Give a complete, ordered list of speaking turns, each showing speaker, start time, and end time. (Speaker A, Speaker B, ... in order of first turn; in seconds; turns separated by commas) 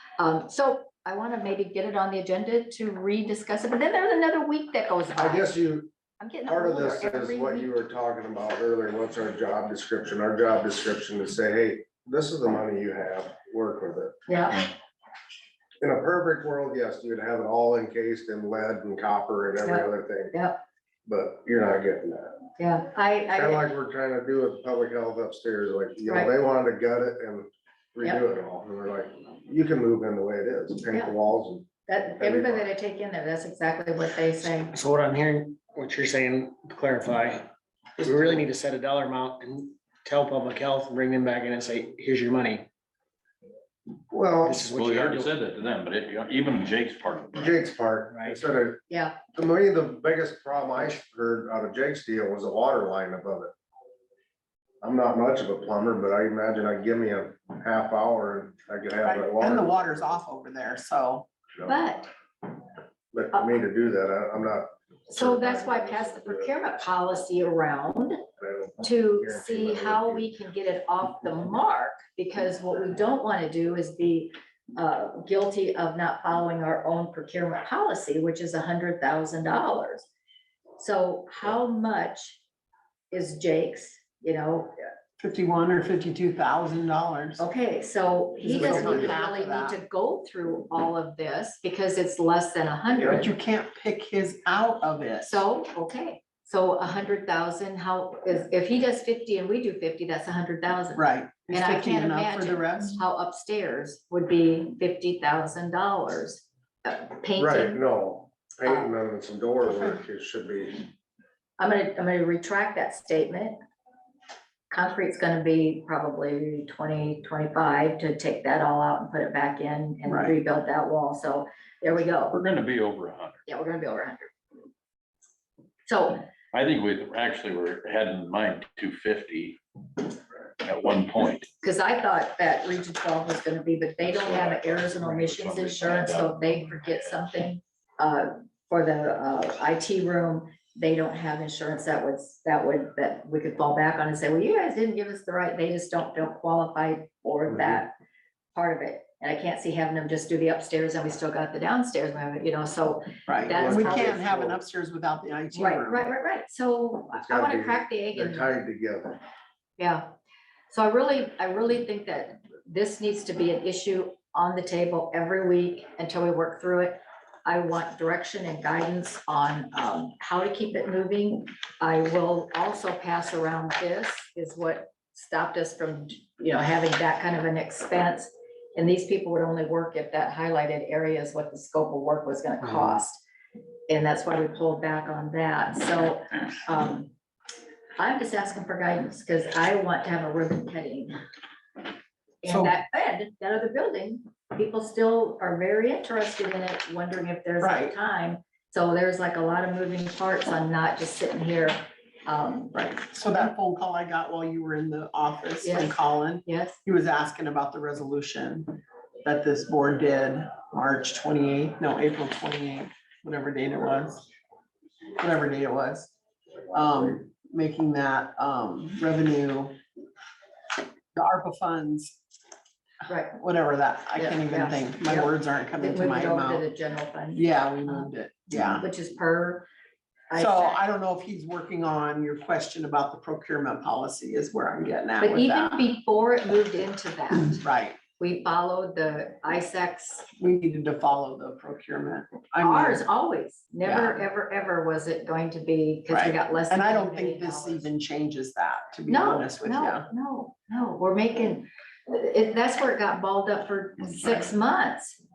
Speaker A: 0.2-5.5, Speaker B: 5.1-5.9, Speaker A: 6.2-7.8, Speaker B: 6.5-14.2, Speaker A: 14.3-14.7, Speaker B: 15.8-20.3, Speaker A: 19.6-20.6, Speaker B: 21.1-22.4, Speaker A: 22.6-23.7, Speaker B: 23.3-32.7, Speaker A: 26.1-26.3, Speaker A: 31.9-34.7, Speaker C: 34.7-42.7, Speaker B: 38.0-38.4, Speaker B: 44.1-44.7, Speaker C: 44.4-45.3, Speaker D: 44.7-47.6, Speaker B: 47.3-48.8, Speaker A: 48.9-49.2, Speaker B: 49.3-53.5, Speaker B: 54.8-60.2, Speaker E: 59.0-61.3, Speaker A: 61.6-62.1, Speaker B: 63.1-66.5, Speaker A: 65.1-68.2, Speaker B: 68.4-70.3, Speaker A: 68.8-80.1, Speaker A: 80.8-82.4, Speaker A: 83.1-84.7, Speaker E: 85.2-87.4, Speaker A: 87.4-93.3, Speaker E: 88.4-89.8, Speaker B: 88.5-89.2, Speaker E: 93.0-95.4, Speaker A: 95.2-107.8, Speaker E: 100.9-103.0, Speaker B: 107.4-110.9, Speaker A: 108.6-108.9, Speaker E: 109.6-110.0, Speaker A: 111.6-113.6, Speaker A: 114.7-122.4, Speaker E: 120.0-120.3, Speaker D: 122.3-123.4, Speaker A: 123.5-124.3, Speaker A: 125.8-126.2, Speaker D: 126.5-130.1, Speaker D: 130.6-131.5, Speaker A: 131.6-147.9, Speaker D: 134.0-137.1, Speaker B: 147.5-147.8, Speaker A: 148.5-154.1, Speaker E: 153.3-156.1, Speaker B: 153.5-154.6, Speaker A: 155.5-158.5, Speaker B: 157.1-159.2, Speaker A: 159.8-160.1, Speaker A: 160.7-183.2, Speaker A: 183.9-187.1, Speaker A: 188.0-191.2, Speaker A: 192.4-202.8, Speaker E: 192.5-192.8, Speaker E: 197.6-197.9, Speaker E: 202.7-214.2, Speaker A: 205.6-206.8, Speaker E: 215.2-216.1, Speaker E: 216.7-219.8, Speaker E: 221.1-222.2, Speaker A: 223.1-223.3, Speaker E: 223.3-226.6, Speaker A: 224.2-229.7, Speaker E: 227.3-228.8, Speaker A: 230.3-230.8, Speaker E: 230.3-235.9, Speaker A: 235.2-237.6, Speaker E: 237.4-238.0, Speaker A: 238.2-240.3, Speaker E: 240.4-243.0, Speaker A: 242.6-247.9, Speaker E: 243.8-244.2, Speaker E: 246.1-250.1, Speaker A: 249.1-255.2